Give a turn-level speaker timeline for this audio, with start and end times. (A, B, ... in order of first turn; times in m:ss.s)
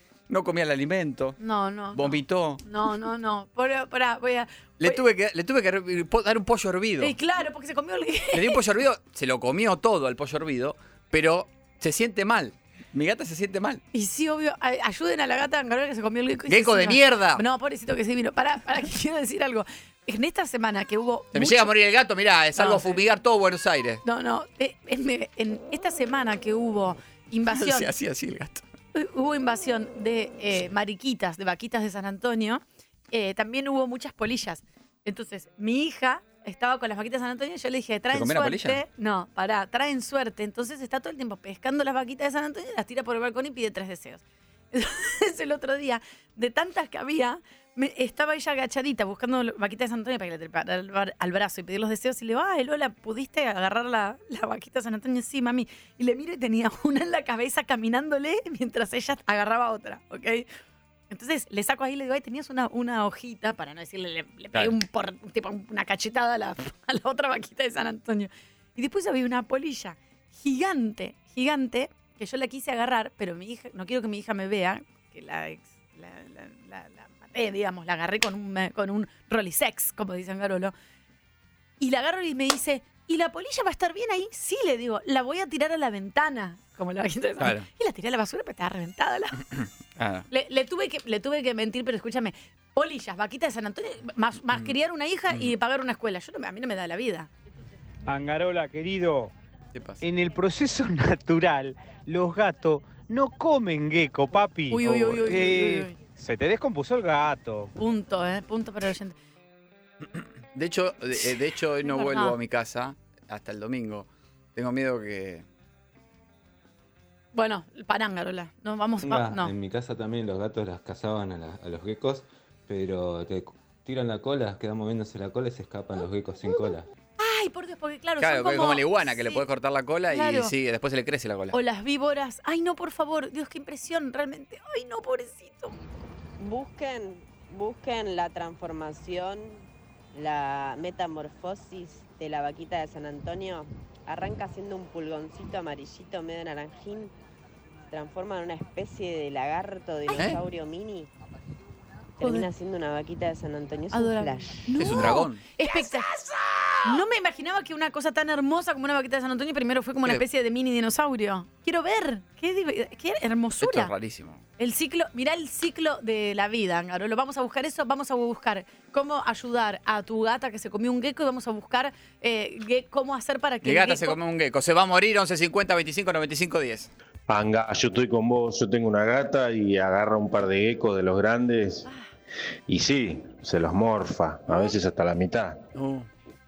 0:00.3-0:01.4 A
0:01.4-0:05.0 B
0:01.9-0:02.6 A
0:04.8-0:07.1 A
0:07.0-0:08.6 B
0:08.3-0:13.8 A
0:13.9-0:21.7 B
0:16.5-0:17.4 A
0:21.3-0:24.0 A
0:22.6-0:23.0 B
0:24.0-0:27.9 B
0:27.5-0:28.6 A
0:29.0-1:00.5 B
0:38.1-0:38.8 A
1:01.1-1:20.7 B
1:21.8-1:29.4 B
1:27.4-1:27.7 A
1:29.6-1:30.3 A
1:30.3-1:37.3 B
1:34.5-1:34.8 A
1:38.1-1:39.3 C
1:39.7-1:40.0 A
1:40.0-1:47.7 C
1:44.7-1:46.0 B
1:47.8-1:49.2 B
1:50.0-1:55.4 A
1:51.8-1:52.4 B
1:57.3-1:59.5 B
1:59.0-2:06.9 D
2:07.2-2:09.4 B
2:08.2-2:11.6 A
2:10.1-2:10.5 B
2:11.5-2:15.7 B
2:16.4-2:27.1 E
2:27.9-2:31.1 E
2:30.1-2:30.4 A
2:32.2-2:34.7 E
2:32.2-2:32.5 B
2:33.9-2:36.1 B
2:34.8-2:35.4 A
2:36.8-2:43.9 B
2:43.6-2:44.4 A
2:44.6-2:54.2 B
2:53.6-2:56.9 A
2:57.3-3:01.9 F
3:02.7-3:05.6 F
3:05.8-3:06.1 A